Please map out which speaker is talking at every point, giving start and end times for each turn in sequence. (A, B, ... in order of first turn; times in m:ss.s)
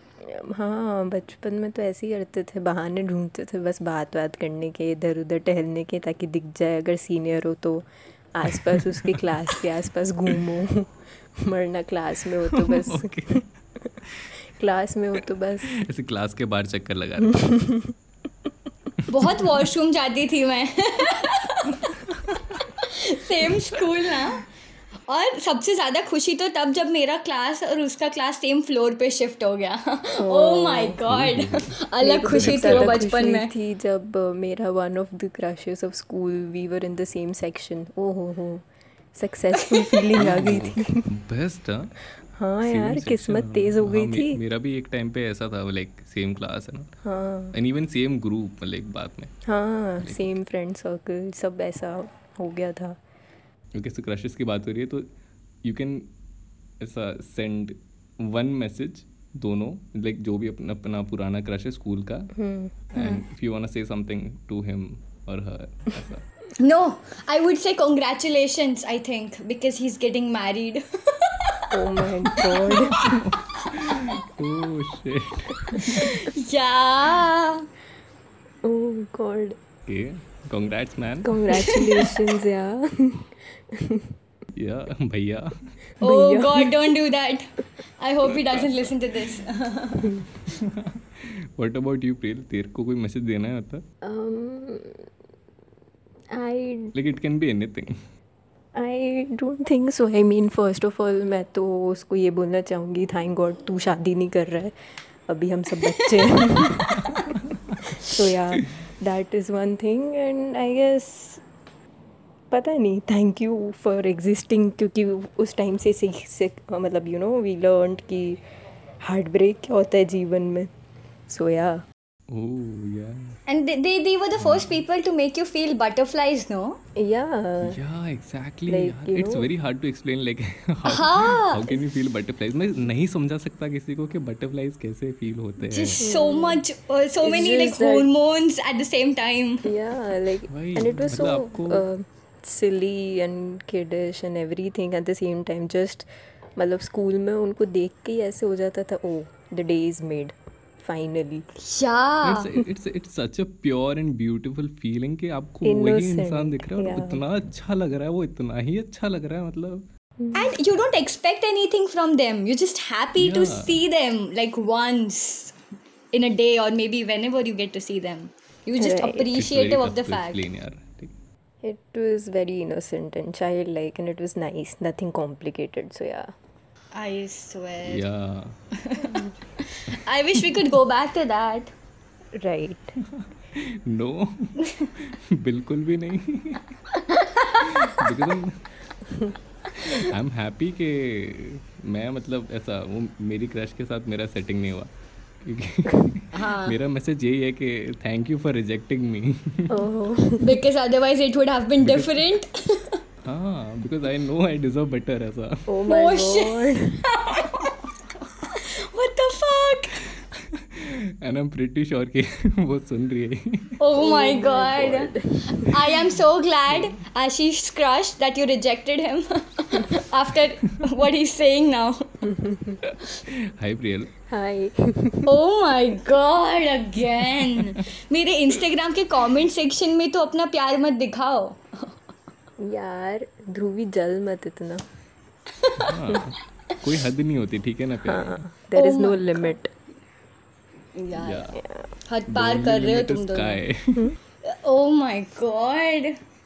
0:00.3-0:13.4 A
0:08.5-0:09.3 B
0:12.5-0:13.3 B
0:14.5-0:15.7 A
0:15.8-0:17.4 B
0:17.2-0:17.9 A
0:19.1-0:21.9 C
0:22.1-0:22.4 B
0:22.6-0:24.4 C
0:25.1-0:33.5 C
0:30.2-0:31.0 A
0:31.1-0:31.8 B
0:32.0-0:41.0 A
0:32.3-0:33.0 B
0:40.1-0:42.0 B
0:42.4-0:44.4 A
0:42.6-0:46.9 B
0:47.0-0:47.6 A
0:47.5-0:49.3 B
0:49.4-0:53.0 A
0:50.0-0:50.3 B
0:53.7-0:55.0 B
0:55.6-0:56.1 B
0:56.8-1:02.3 B
1:02.4-1:02.7 A
1:02.9-1:06.2 B
1:03.0-1:03.2 C
1:06.6-1:11.6 C
1:11.7-1:13.3 A
1:12.4-1:16.2 B
1:15.7-1:17.6 C
1:18.6-1:19.6 A
1:19.8-1:21.5 B
1:21.2-1:24.0 A
1:21.5-1:22.1 C
1:24.6-1:25.6 B
1:26.0-1:26.7 A
1:26.0-1:27.4 C
1:28.0-1:30.2 C
1:30.4-1:33.8 B
1:34.0-1:35.0 A
1:36.3-1:36.9 A
1:36.9-1:37.9 B
1:38.8-1:44.7 A
1:45.3-1:47.2 A
1:47.9-1:51.4 A
1:52.5-1:58.4 A
1:59.0-2:00.7 A
2:01.3-2:01.8 A
2:02.3-2:03.4 B
2:03.5-2:06.8 C
2:04.4-2:04.8 B
2:07.0-2:07.8 A
2:07.6-2:16.0 B
2:08.7-2:09.5 A
2:10.8-2:11.8 C
2:15.6-2:19.7 C
2:16.0-2:16.6 A
2:17.2-2:18.1 A
2:19.6-2:31.4 A
2:20.5-2:21.9 B
2:31.6-2:32.5 C
2:32.2-2:39.9 B
2:35.6-2:37.2 A
2:40.2-2:40.5 A
2:40.3-2:45.6 C
2:43.2-2:43.8 B
2:46.1-2:50.4 C
2:48.8-2:49.3 A
2:49.3-2:51.1 B
2:51.6-2:56.3 A
2:56.9-2:58.0 C
2:57.8-2:58.6 B
2:58.8-3:01.7 C
2:59.0-2:59.3 A
3:02.4-3:02.9 A
3:03.0-3:06.8 B
3:07.0-3:07.6 C
3:07.6-3:08.6 B
3:09.7-3:14.9 B
3:15.4-3:19.9 B
3:16.3-3:16.8 C
3:19.7-3:20.6 A
3:20.4-3:22.9 C
3:21.8-3:22.4 B
3:23.2-3:25.7 B
3:25.7-3:27.0 A
3:25.9-3:27.7 C
3:28.4-3:30.1 C
3:30.5-3:33.8 B
3:33.8-3:42.1 C
3:34.0-3:35.9 A
3:42.2-3:42.8 A
3:42.9-3:44.1 B
3:44.3-3:45.3 A
3:45.2-3:52.0 C
3:52.6-3:54.8 A
3:55.6-3:55.9 C
3:55.8-3:58.4 B
3:58.0-3:59.7 A
3:58.7-3:59.6 C
4:00.9-4:03.6 C
4:01.2-4:01.5 B
4:01.6-4:01.9 A
4:02.3-4:04.1 B
4:04.5-4:06.1 C